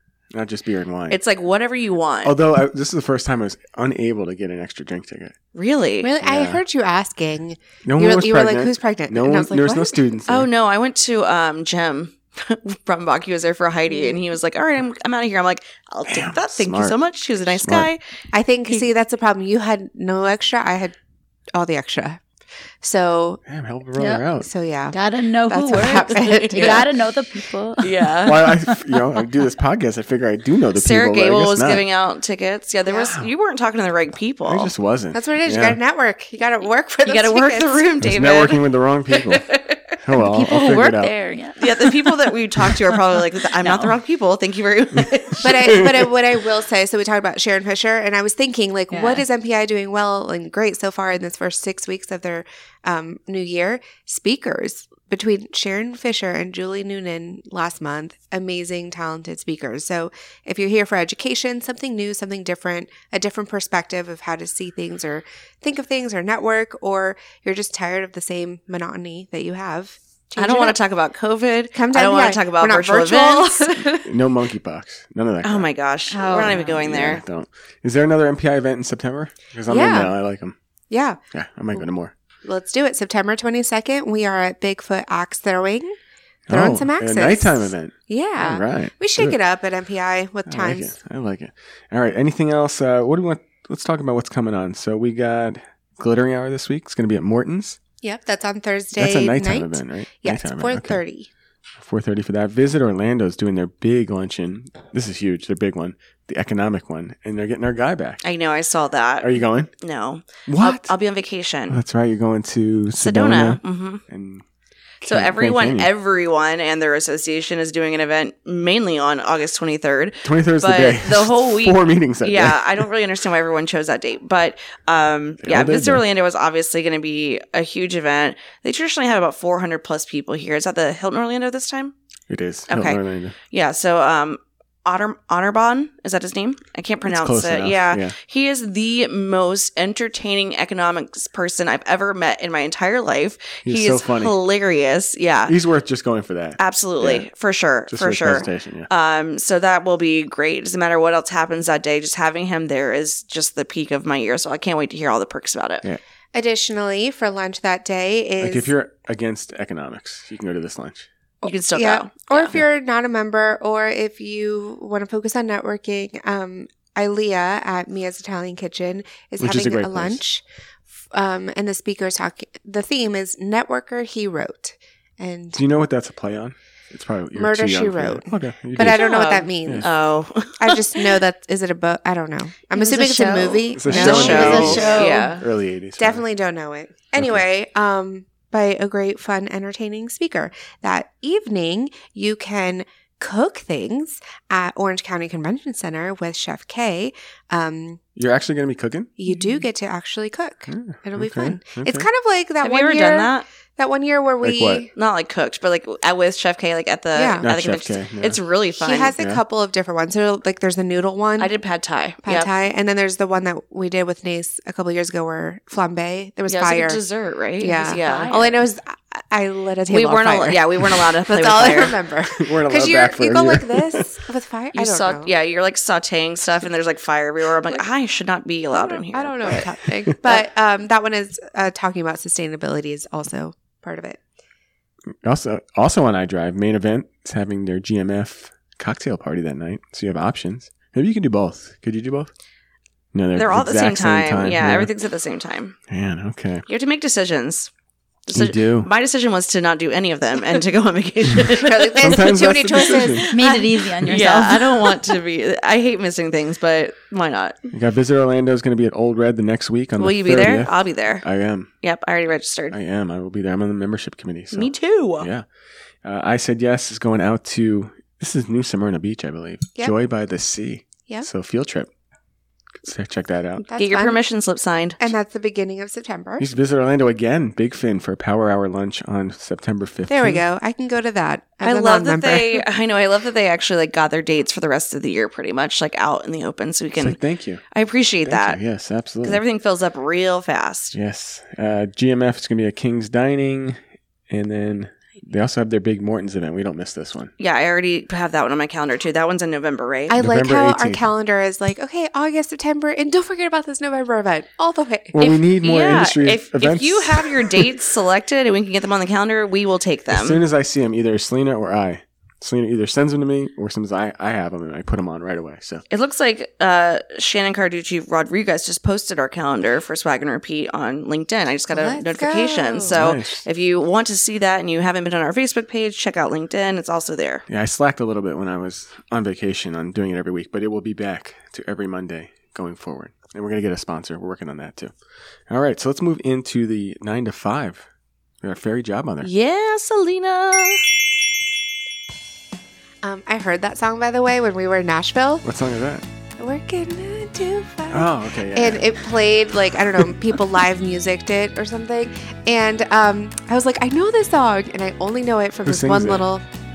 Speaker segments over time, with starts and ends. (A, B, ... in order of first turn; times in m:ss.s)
0:00.3-0:01.2 A
0:01.1-0:02.4 B
0:02.2-0:05.3 A
0:05.5-0:06.1 B
0:06.0-0:10.0 C
0:06.2-0:06.6 A
0:07.8-0:10.5 A
0:10.3-0:18.0 B
0:13.9-0:14.2 C
0:16.1-0:17.0 A
0:17.6-0:17.9 A
0:18.3-0:20.9 C
0:21.5-0:22.2 C
0:22.8-0:23.4 C
0:23.4-0:24.5 A
0:24.0-0:24.2 D
0:24.4-0:25.0 C
0:24.9-0:28.8 D
0:25.5-0:26.9 C
0:25.8-0:26.9 B
0:27.8-0:28.5 B
0:28.2-0:31.8 A
0:30.7-0:34.7 B
0:33.0-0:33.3 A
0:34.5-0:35.8 A
0:35.1-0:37.9 C
0:37.0-0:39.9 B
0:38.0-0:39.4 A
0:40.0-0:41.1 A
0:40.1-0:42.0 D
0:41.6-0:45.8 B
0:43.6-0:43.9 D
0:45.0-0:46.1 A
0:45.4-1:10.8 C
0:48.9-0:49.2 D
1:10.4-1:14.1 B
1:11.7-1:14.0 C
1:14.0-1:15.7 A
1:15.4-1:17.2 B
1:16.1-1:16.8 D
1:16.4-1:20.5 A
1:19.7-1:20.1 C
1:20.9-1:21.2 C
1:21.3-1:22.1 A
1:22.4-1:25.9 C
1:26.5-1:29.4 A
1:26.5-1:30.9 C
1:30.5-1:37.8 A
1:38.0-1:41.3 C
1:38.9-1:41.0 A
1:41.8-1:48.2 A
1:48.2-1:51.8 B
1:49.2-1:49.7 A
1:50.5-1:50.9 A
1:51.7-1:54.4 A
1:53.0-1:54.0 B
1:55.0-1:55.9 A
1:55.0-2:11.9 B
2:00.2-2:02.9 A
2:05.4-2:06.0 A
2:12.3-2:13.4 A
2:12.7-2:13.0 B
2:13.5-2:25.5 B
2:17.0-2:18.1 A
2:23.6-2:24.3 A
2:25.5-2:27.2 A
2:26.6-2:35.8 B
2:27.9-2:28.9 A
2:36.3-2:38.7 C
2:38.4-2:41.1 A
2:41.4-2:42.6 B
2:41.4-2:50.4 C
2:49.4-2:50.2 A
2:51.1-2:55.6 C
2:55.5-2:59.0 A
2:57.3-2:59.9 C
2:58.8-3:01.2 B
3:00.6-3:05.3 C
3:02.7-3:05.3 D
3:03.7-3:06.2 A
3:03.9-3:05.4 B
3:06.0-3:18.0 C
3:07.2-3:07.4 A
3:18.2-3:19.1 A
3:19.2-3:24.9 C
3:19.3-3:19.6 D
3:20.7-3:22.1 A
3:22.6-3:23.4 B
3:24.4-3:24.9 A
3:24.9-3:29.1 B
3:27.1-3:27.4 C
3:27.4-3:28.4 A
3:28.8-3:31.5 C
3:29.2-3:29.4 A
3:31.4-3:32.5 B
3:32.2-3:37.0 C
3:36.5-3:38.6 B
3:37.6-3:45.3 C
3:39.9-3:42.0 B
3:42.4-3:44.2 A
3:44.7-3:49.7 B
3:48.7-3:54.2 C
3:55.2-4:02.3 A
4:03.1-4:04.9 A
4:03.4-4:05.8 B
4:05.9-4:06.6 A
4:06.7-4:07.7 B
4:08.2-4:17.6 B
4:08.3-4:08.9 A
4:11.6-4:13.6 C
4:12.0-4:13.2 A
4:13.3-4:15.0 D
4:17.7-4:21.7 A
4:20.0-4:21.2 B
4:21.8-4:22.8 B
4:22.7-4:25.4 A
4:24.5-4:25.3 B
4:26.0-4:31.9 A
4:32.8-4:33.6 A
4:33.7-4:34.2 C
4:33.8-4:35.1 B
4:35.0-4:36.5 C
4:36.4-4:40.4 A
4:40.1-4:42.6 C
4:41.6-4:47.2 B
4:46.9-4:47.6 A
4:47.7-4:48.6 B
4:48.2-4:49.4 A
4:49.2-4:51.0 B
4:50.9-4:53.8 A
4:54.3-4:57.3 A
4:57.4-5:00.2 B
5:00.1-5:05.2 C
5:00.2-5:01.0 A
5:05.1-5:07.7 A
5:05.2-5:10.4 B
5:10.1-5:15.8 A
5:15.9-5:27.4 B
5:21.7-5:23.0 C
5:22.9-5:23.4 A
5:27.5-5:34.9 A
5:35.5-5:37.8 A
5:38.4-5:39.3 A
5:39.2-5:40.8 B
5:43.0-5:45.4 C
5:45.4-5:46.0 A
5:46.4-5:56.4 C
5:47.9-5:49.0 A
5:55.6-5:56.2 A